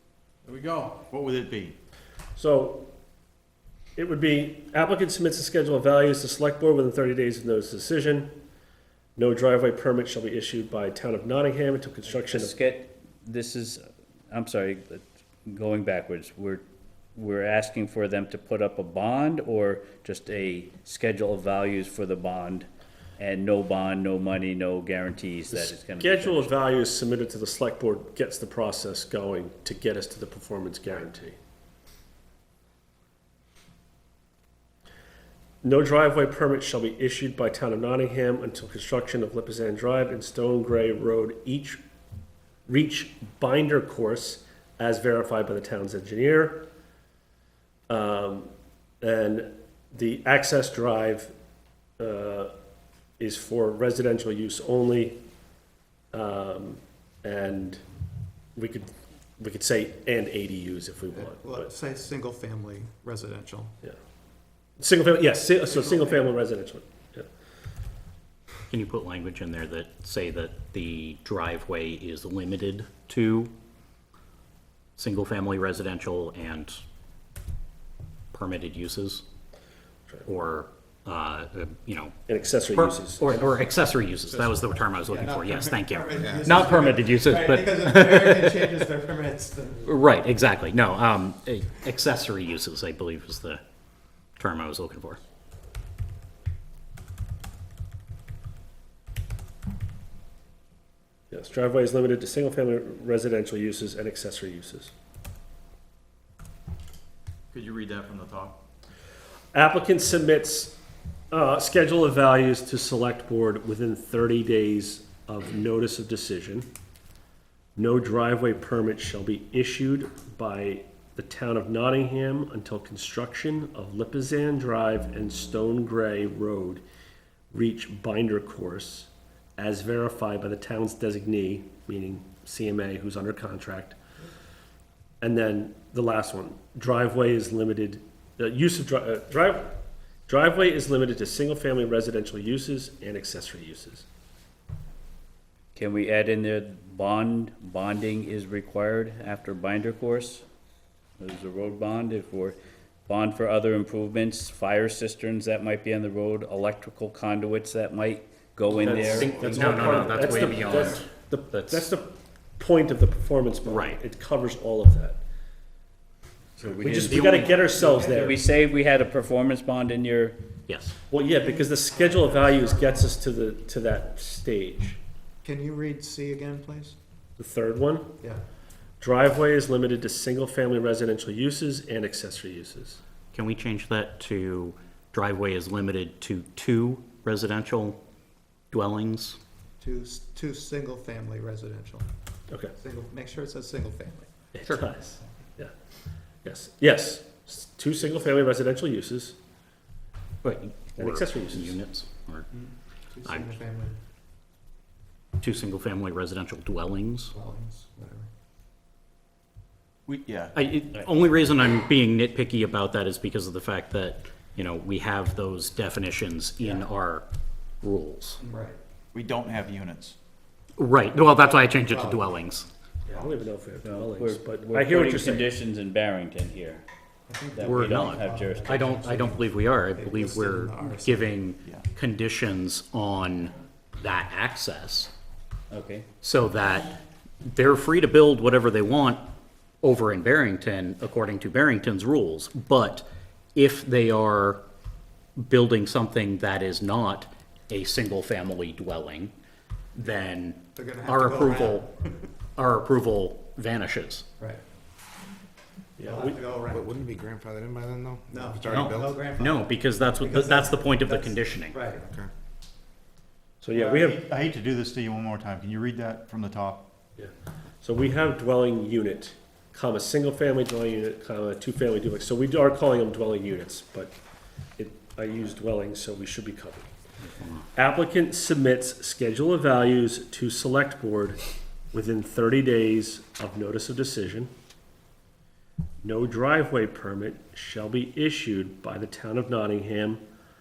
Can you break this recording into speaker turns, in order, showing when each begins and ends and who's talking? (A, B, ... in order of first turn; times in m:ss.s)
0:00.4-0:01.8 A
0:02.4-0:02.9 B
0:04.0-0:08.4 B
0:09.2-0:12.6 B
0:12.1-0:16.6 C
0:17.2-0:26.5 C
0:25.5-0:31.4 B
0:35.6-0:41.8 B
0:42.7-0:46.7 B
0:47.9-0:51.3 B
0:52.0-0:52.5 B
0:53.2-0:55.2 B
0:56.1-0:57.8 B
0:58.6-1:01.8 B
1:01.2-1:03.7 D
1:02.1-1:03.4 E
1:04.8-1:07.3 B
1:08.7-1:13.5 F
1:15.0-1:16.8 F
1:18.3-1:19.2 F
1:20.3-1:22.2 F
1:22.3-1:23.7 B
1:22.8-1:28.8 F
1:24.6-1:29.9 D
1:26.3-1:26.6 E
1:29.9-1:33.6 F
1:34.4-1:35.2 F
1:41.3-1:44.9 B
1:47.5-1:48.6 A
1:49.5-1:50.8 B
1:51.3-1:56.7 B
1:57.8-2:06.8 B
2:07.5-2:14.0 B
2:15.2-2:24.1 B
2:25.8-2:30.4 C
2:31.2-2:40.9 C
2:38.8-2:45.2 B
2:39.1-2:41.9 F
2:39.2-2:40.1 A
2:43.7-2:44.0 F
2:46.6-2:47.4 C
2:46.8-2:48.4 B
2:46.9-2:48.2 F
2:47.9-2:50.4 C
2:50.7-2:51.0 F
2:51.1-2:55.0 B
2:55.4-2:57.0 D
2:55.6-2:56.2 E
2:57.4-2:58.2 B
2:59.0-3:03.0 B
3:03.3-3:08.0 F
3:08.7-3:09.4 F
3:09.8-3:12.0 D
3:12.5-3:12.8 B
3:12.8-3:14.2 D
3:14.5-3:15.7 B
3:16.4-3:19.4 B
3:20.4-3:22.5 F
3:21.0-3:21.8 B
3:23.2-3:23.6 F
3:23.4-3:24.0 D
3:25.4-3:27.3 F
3:27.4-3:28.2 D
3:30.1-3:30.6 A
3:30.5-3:37.3 F
3:37.8-3:38.4 F
3:38.4-3:38.8 D
3:39.1-3:40.2 A
3:40.8-3:42.7 F
3:43.1-3:45.5 B
3:43.8-3:46.8 C
3:47.3-3:51.3 D
3:47.5-3:49.2 C
3:47.6-3:55.1 F
3:55.7-3:56.1 C
3:56.2-3:59.3 F
3:59.8-4:04.6 F
4:05.4-4:09.3 F
4:10.0-4:12.0 F
4:10.9-4:11.8 D
4:12.6-4:14.3 F
4:16.0-4:16.4 B
4:16.1-4:16.9 D
4:16.6-4:19.3 E
4:18.3-4:19.6 D
4:18.7-4:21.8 F
4:20.2-4:22.0 D
4:23.6-4:24.2 B
4:23.7-4:26.9 A
4:27.2-4:34.2 B
4:34.8-4:36.9 B
4:37.7-4:44.5 B
4:46.0-4:50.2 B